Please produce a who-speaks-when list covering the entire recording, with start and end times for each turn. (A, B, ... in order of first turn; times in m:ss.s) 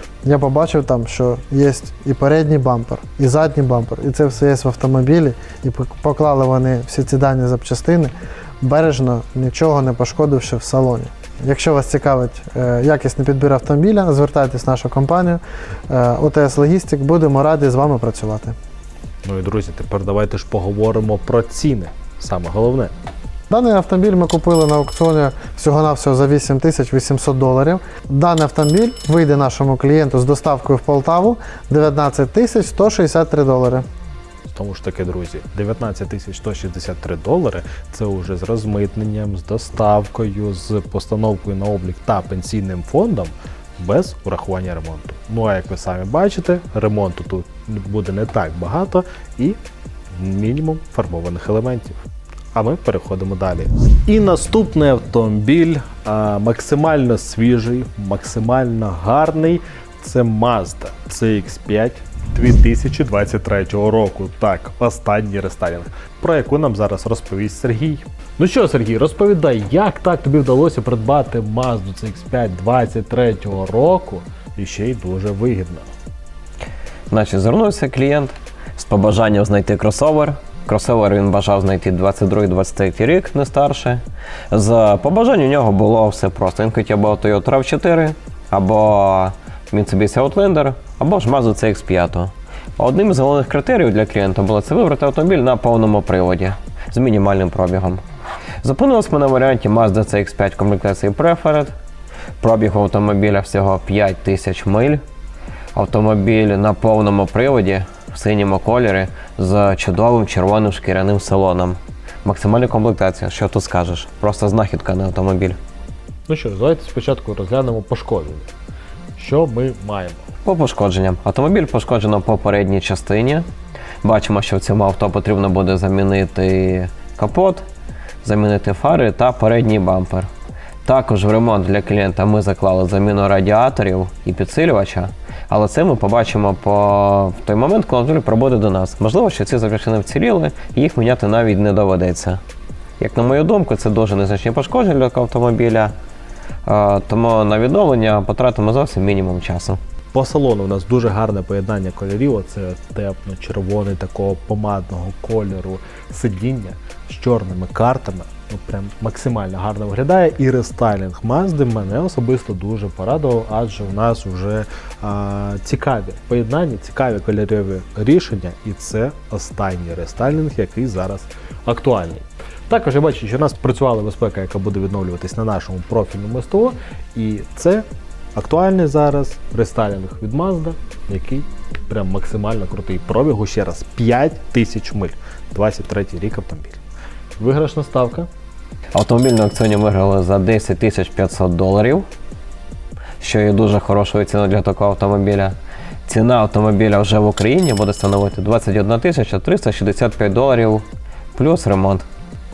0:00.2-0:18.5 A
0:19.2-0:22.9 B
0:23.5-0:33.8 A
0:34.4-0:49.6 B
0:50.1-1:15.9 B
1:17.1-1:38.0 C
1:38.6-1:41.7 C
1:42.4-1:45.0 C
1:45.7-1:55.6 C
1:56.3-1:58.5 B
1:59.2-2:00.2 B
2:00.4-2:03.5 C
2:04.0-2:07.6 C
2:08.2-2:10.3 C
2:10.8-2:22.4 C
2:23.0-2:25.9 C
2:26.6-2:29.8 C
2:30.1-3:06.8 B
3:07.4-3:08.3 B
3:08.9-3:12.0 C
3:13.2-3:15.5 C
3:16.0-3:20.8 C
3:21.3-3:22.0 C